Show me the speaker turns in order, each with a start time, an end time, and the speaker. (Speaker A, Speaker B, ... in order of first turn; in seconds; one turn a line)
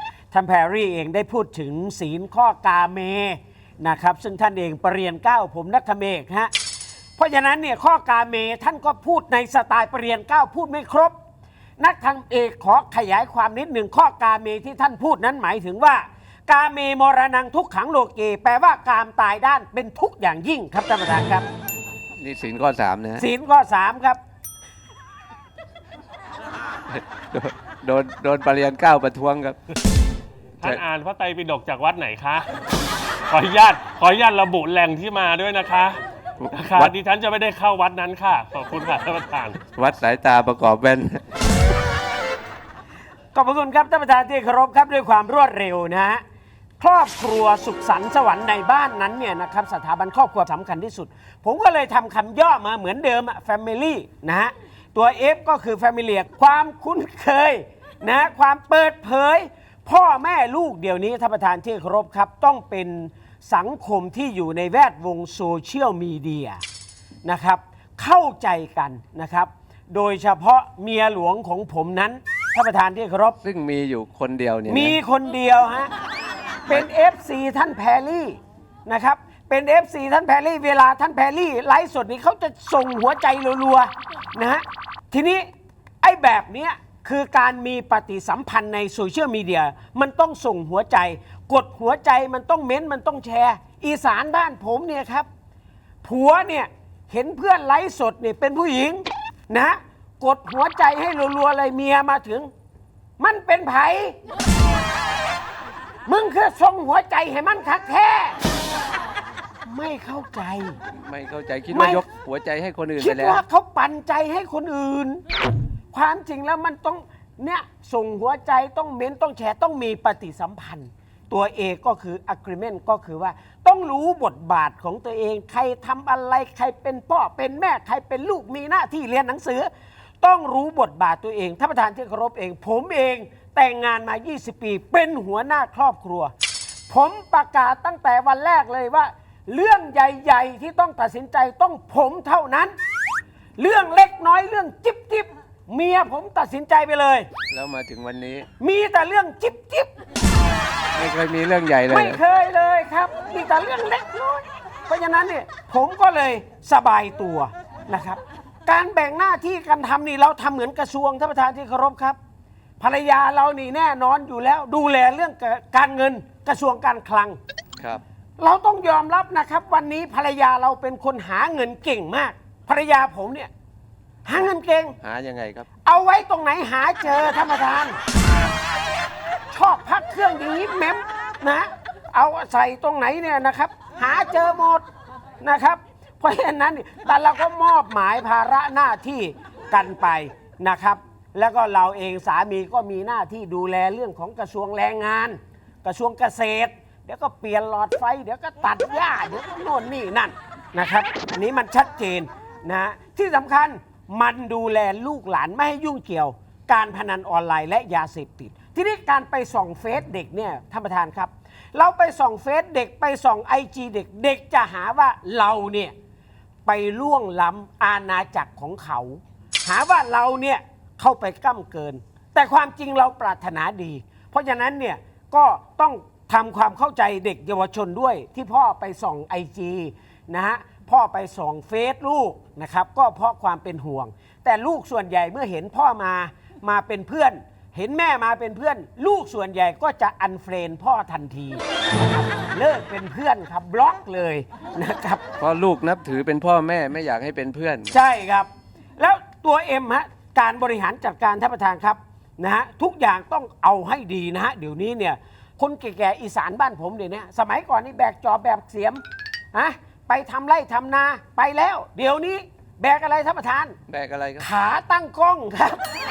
Speaker A: 0.3-6.5
Speaker A: 7.2-11.2
Speaker A: 11.8-21.5
Speaker B: 22.2-23.3
Speaker A: 23.2-24.2
Speaker B: 26.9-29.6
Speaker C: 30.6-32.5
Speaker C: 33.3-36.0
Speaker B: 36.4-36.9
Speaker C: 36.5-39.6
Speaker B: 39.6-41.2
Speaker A: 43.4-46.2
Speaker A: 46.8-66.6
Speaker A: 67.2-73.4
Speaker B: 73.4-75.0
Speaker A: 74.7-75.9
Speaker A: 76.7-85.5
Speaker A: 86.0-95.3
Speaker A: 96.0-102.5
Speaker A: 103.2-104.2
Speaker A: 106.1-108.4
Speaker A: 109.7-110.8
Speaker B: 110.9-113.4
Speaker A: 111.7-112.0
Speaker A: 113.0-115.2
Speaker A: 115.9-129.7
Speaker A: 130.2-136.3
Speaker A: 136.9-142.8
Speaker A: 143.6-147.3
Speaker B: 147.5-148.5
Speaker A: 148.6-149.9
Speaker B: 150.9-152.2
Speaker A: 151.9-162.2
Speaker A: 162.8-167.4
Speaker A: 168.4-173.5
Speaker A: 174.2-175.0
Speaker B: 175.0-175.7
Speaker A: 175.8-178.0
Speaker A: 179.5-184.8
Speaker A: 185.4-215.9
Speaker A: 216.7-241.6
Speaker A: 242.5-245.2
Speaker B: 245.4-248.0
Speaker A: 247.9-263.8
Speaker B: 263.9-264.5
Speaker A: 264.4-265.9